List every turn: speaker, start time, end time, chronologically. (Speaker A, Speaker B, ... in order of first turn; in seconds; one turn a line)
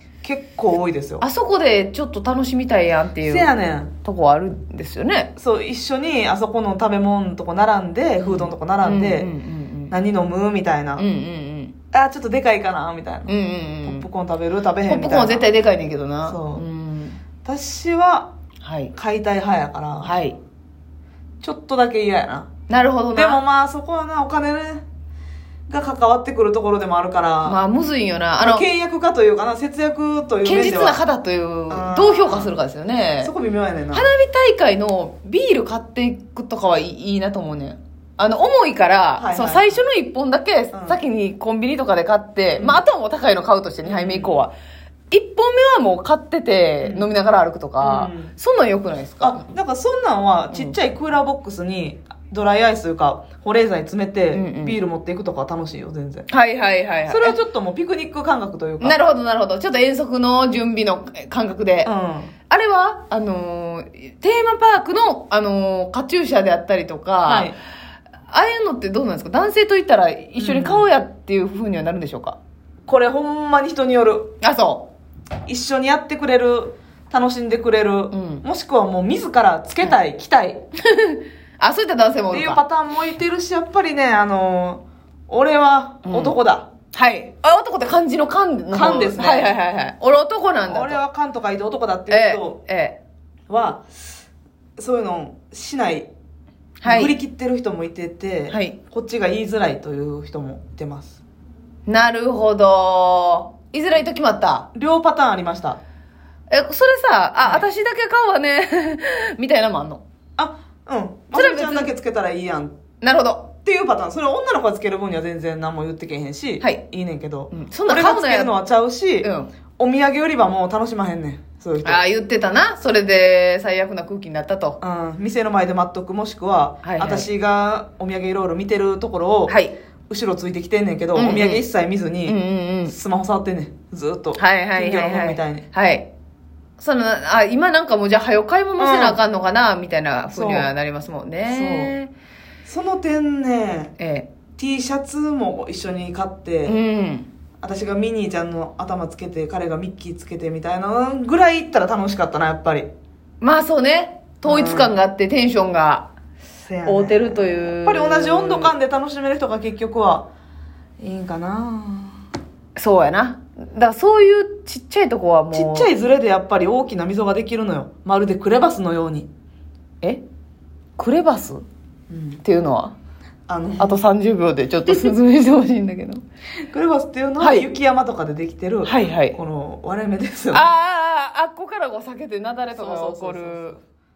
Speaker A: 0.2-1.2
Speaker B: 1.2-5.3
Speaker A: 3.2-3.9
Speaker A: 5.4-9.3
Speaker B: 8.3-9.9
Speaker A: 9.9-11.1
Speaker B: 11.0-11.8
Speaker A: 11.9-15.5
Speaker B: 13.3-14.1
Speaker B: 14.8-17.2
Speaker A: 16.2-16.6
Speaker A: 17.4-18.3
Speaker B: 18.6-18.9
Speaker A: 18.9-20.2
Speaker B: 20.0-20.4
Speaker A: 21.4-22.5
Speaker B: 22.7-23.4
Speaker A: 23.1-24.9
Speaker A: 25.7-27.6
Speaker B: 27.4-28.7
Speaker A: 28.4-31.0
Speaker B: 30.4-33.3
Speaker A: 31.7-32.6
Speaker A: 33.2-34.1
Speaker B: 33.9-44.5
Speaker A: 39.2-39.8
Speaker A: 40.7-41.0
Speaker A: 43.8-44.4
Speaker B: 45.1-49.4
Speaker A: 46.8-47.1
Speaker A: 47.8-48.3
Speaker A: 49.2-56.3
Speaker B: 54.3-54.8
Speaker B: 56.3-57.4
Speaker A: 57.1-59.0
Speaker B: 58.8-61.9
Speaker A: 61.8-62.3
Speaker B: 62.5-67.5
Speaker A: 67.2-67.6
Speaker B: 68.3-72.4
Speaker A: 70.4-70.9
Speaker A: 72.9-74.3
Speaker B: 74.4-74.9
Speaker A: 75.5-80.6
Speaker B: 78.1-78.4
Speaker B: 80.9-82.6
Speaker A: 82.3-86.7
Speaker B: 86.0-86.4
Speaker B: 86.9-91.0
Speaker A: 88.7-89.6
Speaker A: 90.6-92.6
Speaker B: 92.1-93.0
Speaker A: 93.5-93.9
Speaker A: 94.8-96.1
Speaker B: 96.8-97.2
Speaker A: 96.8-101.2
Speaker B: 98.5-98.8
Speaker B: 101.9-104.7
Speaker A: 104.7-105.8
Speaker B: 106.5-110.0
Speaker A: 107.4-107.7
Speaker A: 110.4-112.8
Speaker B: 111.3-111.9
Speaker B: 113.0-113.5
Speaker A: 113.7-122.0
Speaker B: 117.5-118.5
Speaker B: 119.2-119.5
Speaker B: 121.8-124.8
Speaker A: 124.8-129.6
Speaker B: 126.8-127.3
Speaker B: 129.5-129.7
Speaker A: 130.1-135.7
Speaker B: 131.2-131.6
Speaker B: 132.3-132.9
Speaker B: 134.4-136.1
Speaker B: 136.8-142.1
Speaker A: 138.8-139.2
Speaker A: 140.3-140.7
Speaker A: 141.4-141.9
Speaker A: 142.7-143.9
Speaker B: 144.0-144.3
Speaker A: 144.6-146.8
Speaker B: 146.7-147.3
Speaker A: 147.6-152.9
Speaker B: 153.4-156.1
Speaker A: 154.4-155.0
Speaker A: 156.7-160.3
Speaker B: 156.8-158.7
Speaker A: 161.0-162.2
Speaker B: 162.8-165.9
Speaker A: 165.5-169.3
Speaker B: 171.0-171.7
Speaker A: 172.1-172.4
Speaker B: 172.4-172.9
Speaker A: 173.5-174.1
Speaker B: 173.8-176.2
Speaker A: 176.7-180.7
Speaker B: 177.4-177.7
Speaker B: 178.8-179.4
Speaker B: 180.5-183.8
Speaker A: 182.7-183.8